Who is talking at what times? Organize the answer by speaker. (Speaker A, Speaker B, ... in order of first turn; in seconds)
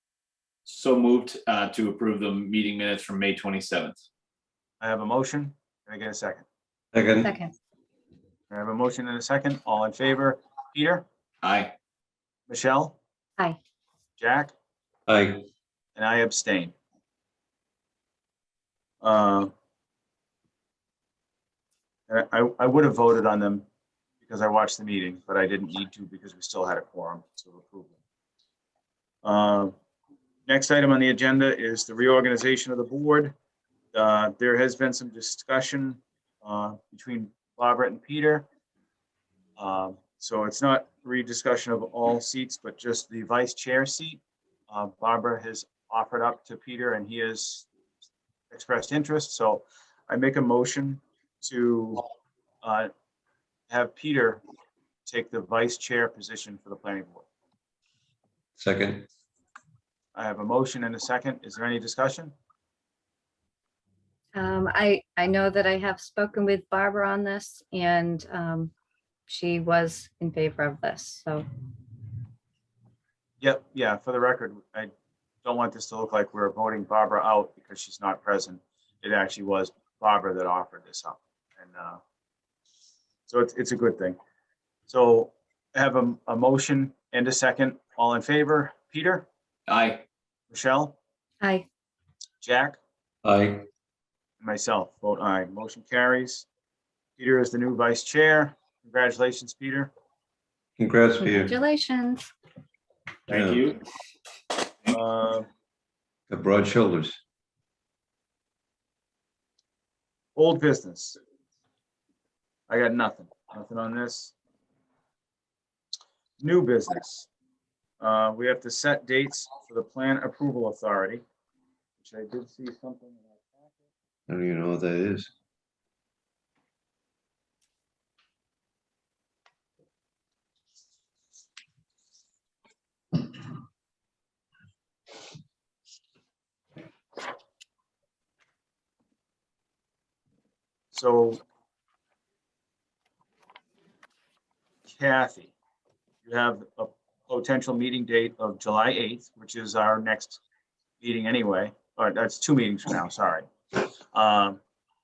Speaker A: 0.7-4.1, 11.4-11.8, 89.7-90.0, 103.3-103.8
Speaker B: 4.8-6.5, 8.5-11.1, 12.5-13.0, 14.2-14.5, 16.0-16.8, 19.0-19.5, 22.1-23.6, 24.2-28.0, 29.2-29.7, 30.5-33.4, 33.9-38.5, 39.6-47.7, 48.5-52.0, 52.6-52.9, 53.7-54.4, 55.1-57.3, 60.1-62.4, 73.4-74.9, 75.4-82.0, 83.3-84.2, 84.9-89.3, 90.5-91.0, 92.4-92.8, 94.4-96.5, 97.2-99.9, 104.9-105.5, 110.4-111.2, 112.7-114.3, 116.4-117.3, 118.0-121.2, 122.0-123.9, 140.9-141.4, 144.9-145.5, 146.2-150.4, 151.0-153.5, 154.1-154.6
Speaker C: 6.9-7.3, 15.1-15.5, 58.6-59.1, 93.2-93.7, 100.8-101.6, 103.3-103.7, 106.3-107.2, 124.3-125.3
Speaker D: 7.2-7.5, 64.3-68.7, 69.3-71.4, 101.2-102.3